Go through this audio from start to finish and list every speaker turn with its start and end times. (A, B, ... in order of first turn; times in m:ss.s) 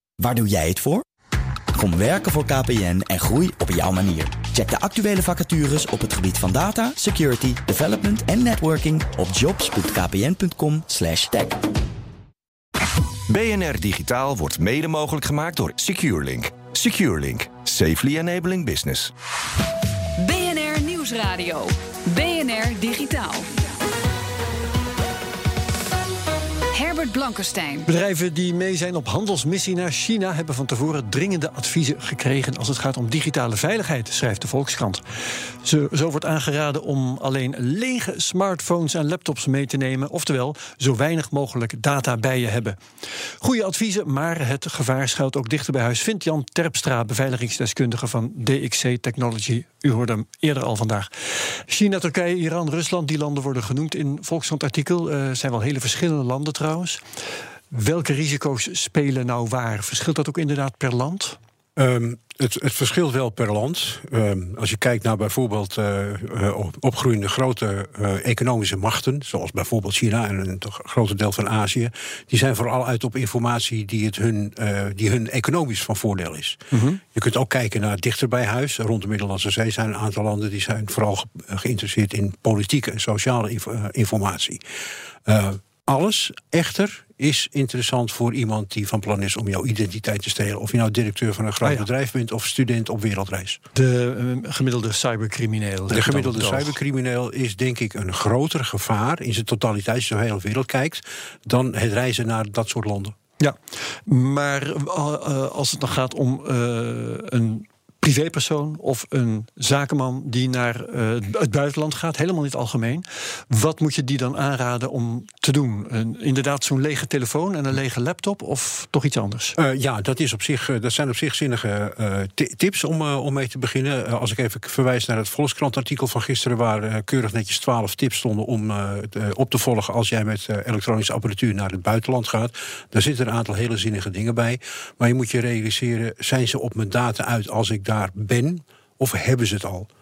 0:00.2-0:01.0 A
0:01.8-0:11.6 A
0:13.3-0:19.1 B
0:20.2-0:23.5 C
0:26.7-0:27.9 C
0:27.8-0:42.8 D
0:43.4-0:57.0 D
0:57.7-1:01.4 D
1:01.8-1:16.6 E
1:16.7-1:17.0 D
1:17.1-1:24.6 E
1:25.3-1:33.6 E
1:31.6-1:31.9 D
1:33.8-1:36.8 D
1:35.9-1:43.1 E
1:43.4-1:59.6 D
1:59.6-2:19.9 E